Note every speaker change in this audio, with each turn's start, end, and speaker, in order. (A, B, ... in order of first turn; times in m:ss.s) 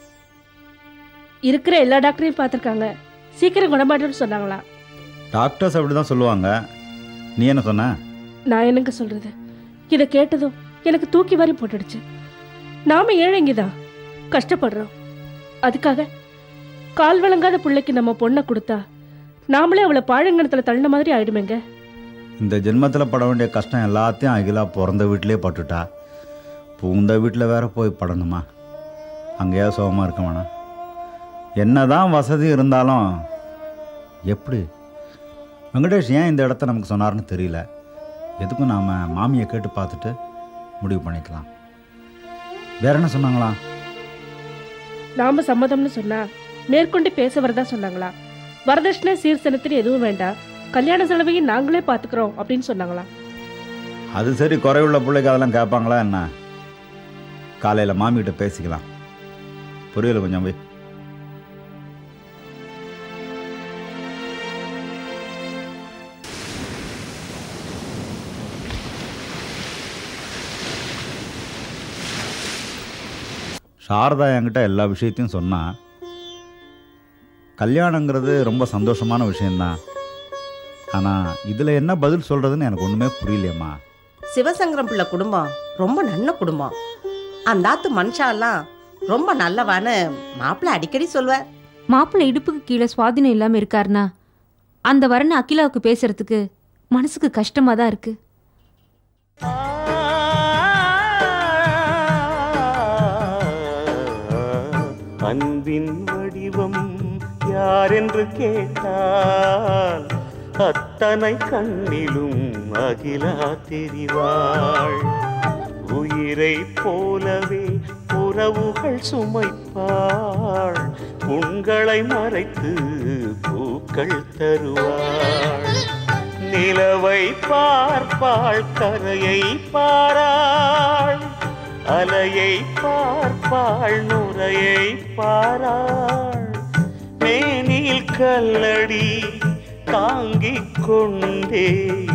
0:01.5-0:04.6 A
0:05.3-0:06.5 B
0:07.4-0:07.9 B
0:08.5-0:09.3 A
0:09.9-0:12.0 A
0:12.9-0:13.7 A
0:14.3-0:14.9 A
0:15.7-0:16.0 A
0:17.0-0:18.8 A
0:19.5-0:21.6 A
0:22.4-0:25.8 B
0:26.8-0:28.4 B
0:29.4-0:30.4 B
0:31.6-0:33.0 B
0:34.3-0:34.6 B
0:35.7-0:37.6 B
0:38.4-0:40.1 B
0:40.8-0:41.5 B
0:42.8-0:43.6 B
0:45.2-0:46.2 A
0:46.7-0:48.1 A
0:48.7-0:53.1 A
0:54.2-0:56.2 B
0:57.6-0:58.8 B
0:59.9-1:00.5 B
1:13.8-1:15.6 B
1:17.6-1:19.7 B
1:20.9-1:23.7 B
1:24.3-1:26.7 C
1:27.5-1:28.6 C
1:29.1-1:31.4 C
1:31.9-1:34.0 D
1:34.9-1:36.4 D
1:36.9-1:38.1 D
1:39.8-1:41.0 E
1:45.2-1:46.8 E
1:47.5-1:50.0 E
1:50.6-1:55.0 E
1:55.9-2:02.7 E
2:03.4-2:05.7 E
2:06.5-2:10.3 E
2:11.9-2:16.4 E
2:17.2-2:19.0 E
2:19.9-2:21.6 E